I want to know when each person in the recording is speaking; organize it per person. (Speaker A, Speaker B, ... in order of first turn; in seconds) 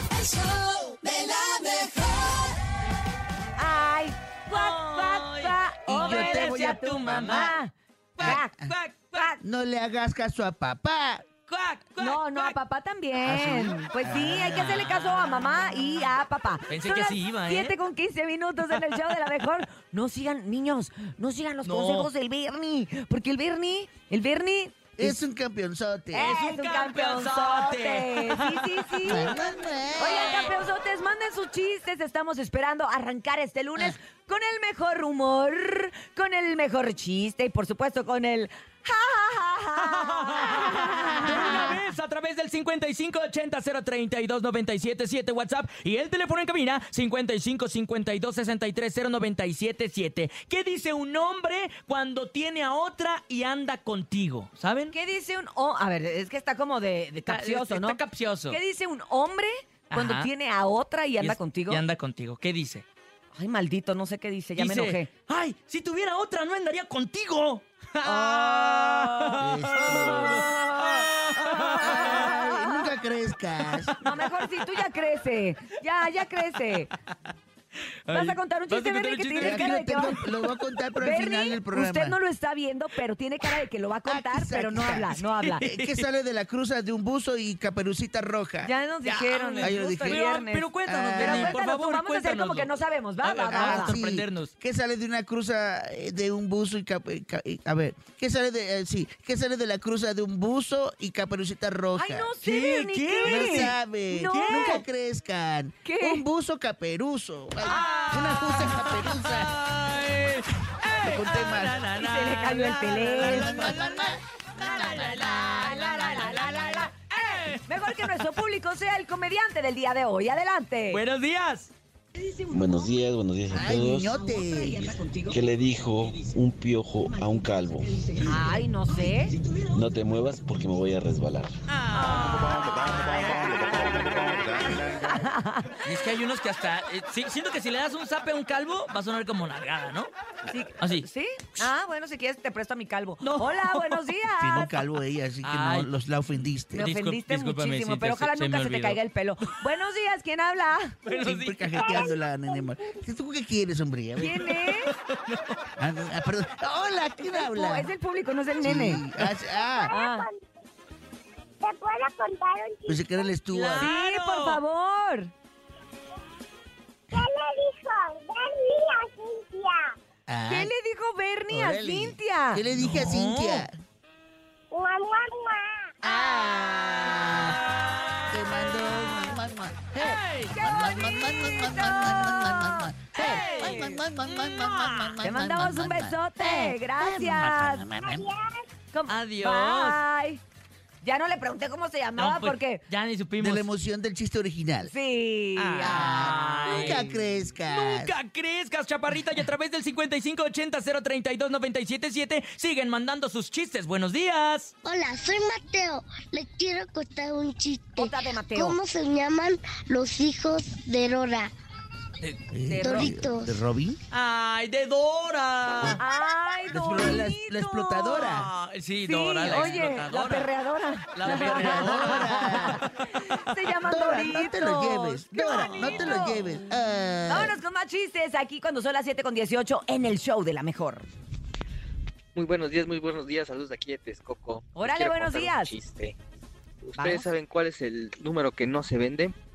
Speaker A: 0.9-2.1, 4.5-7.6, 8.2-9.3, 11.5-12.6, 13.2-13.7, 16.7-17.8, 21.6-22.1, 26.2-29.3, 39.8-54.9, 57.2-58.6, 59.9-60.3, 61.2-62.8, 64.5-72.3, 73.8-74.3, 78.0-80.2, 85.4-86.0, 89.0-94.5, 102.4-103.8, 104.3-104.8, 107.6-118.4, 120.9-121.7, 131.7-134.8, 135.8-140.1, 140.8-141.7, 143.2-144.1, 145.4-145.9, 146.7-149.0, 151.0-151.9, 154.4-155.6, 163.5-164.6, 172.8-173.7, 177.2-179.3, 180.0-180.6, 183.1-185.2, 186.4-186.8, 189.1-190.0, 192.2-193.7, 195.6-204.7, 214.1-216.0, 218.2-220.5, 221.1-222.9, 225.5-226.5
Speaker B: 3.6-8.6, 9.1-9.4, 12.0-25.2, 26.1-29.4, 30.0-41.7, 54.9-61.8, 63.3-65.1, 68.0-72.9, 74.0-76.9, 78.1-80.2, 81.0-85.7, 88.6-94.0, 102.0-104.8, 105.8-106.2, 112.0-113.6, 114.9-121.0, 122.2-122.9, 123.9-125.4, 128.1-129.3, 132.0-132.6, 133.9-135.8, 140.5-144.8, 146.7-151.0, 154.2-154.9, 157.3-159.0, 159.9-160.2, 163.8-165.3, 170.5-172.6, 180.5-184.0, 185.2-187.8, 188.9-190.4, 191.0-192.8, 194.8-197.0, 208.0-208.8, 212.7-213.1, 216.0-218.3, 219.0-226.6, 227.2-231.1, 234.8-235.8, 237.0-237.2
Speaker C: 5.9-7.5, 8.2-8.7, 9.4-11.2, 13.3-15.0, 25.0-26.3, 29.0-30.5, 69.4-70.6, 71.8-73.9, 79.4-82.2, 84.0-88.7, 89.6-90.2, 90.9-91.6, 93.5-102.3, 103.2-109.5, 111.0-111.8, 113.2-115.3, 123.5-124.8, 144.4-146.9, 151.1-154.6, 155.8-157.9, 158.6-159.9, 162.9-163.9, 170.3-170.7, 171.5-173.7, 176.0-177.6, 178.3-186.2, 187.0-188.3, 193.4-194.9, 195.8-198.2, 212.5-214.0, 216.7-218.5, 221.2-222.8, 223.8-227.6
Speaker D: 122.5-124.2, 124.8-128.5, 129.5-131.5
Speaker E: 151.7-152.2, 159.6-160.5, 161.6-162.9, 168.8-169.6, 204.8-211.5, 212.8-213.6
Speaker F: 152.5-152.9, 161.7-163.0, 167.1-169.8, 174.7-175.9, 188.2-188.6
Speaker G: 232.3-236.2, 236.8-239.3